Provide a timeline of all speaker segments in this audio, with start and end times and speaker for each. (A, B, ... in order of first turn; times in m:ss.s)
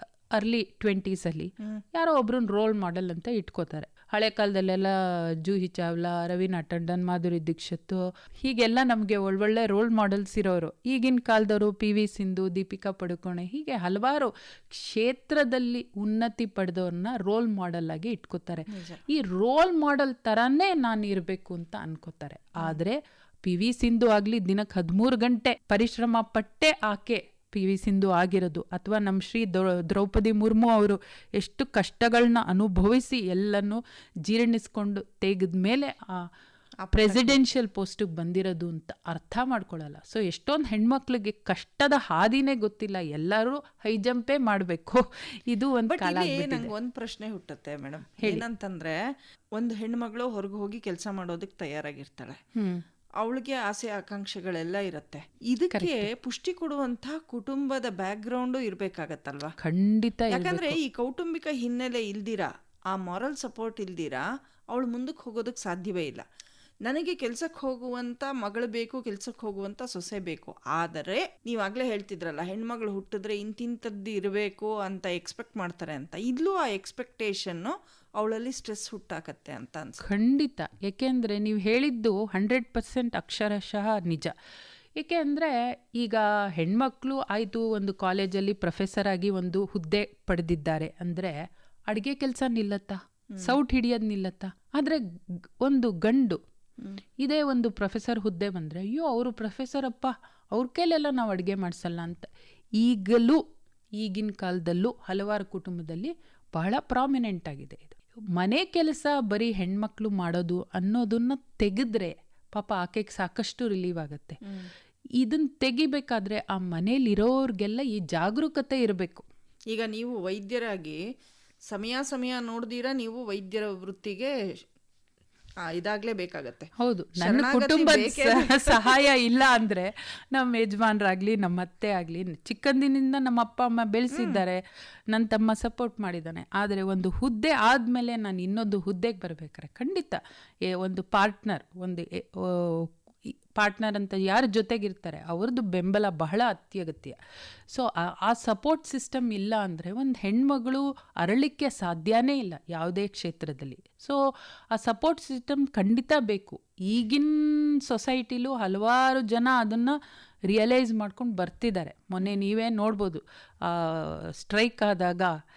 0:00.4-0:36.2 A
0:18.7-0:19.0 B
0:36.8-0:37.4 B
0:36.9-0:46.7 A
0:45.9-0:49.0 B
0:49.6-0:52.4 B
0:52.6-0:52.8 A
0:53.2-0:59.6 B
0:55.7-0:56.1 A
0:59.6-1:00.8 A
1:00.3-1:06.2 B
1:06.8-1:20.0 B
1:20.0-1:24.3 A
1:25.0-1:31.4 A
1:31.9-1:35.0 A
1:33.3-1:33.6 B
1:35.6-1:36.4 A
1:37.2-1:42.3 A
1:42.8-1:43.4 A
1:44.0-1:54.4 A
1:55.2-1:59.2 A
1:59.7-2:01.0 B
2:01.7-2:04.3 B
2:05.6-2:09.0 B
2:06.8-2:20.2 A
2:14.1-2:14.4 B
2:20.7-2:22.9 A
2:23.6-2:27.2 A
2:27.7-2:34.2 A
2:34.7-2:40.0 A
2:40.5-2:45.3 A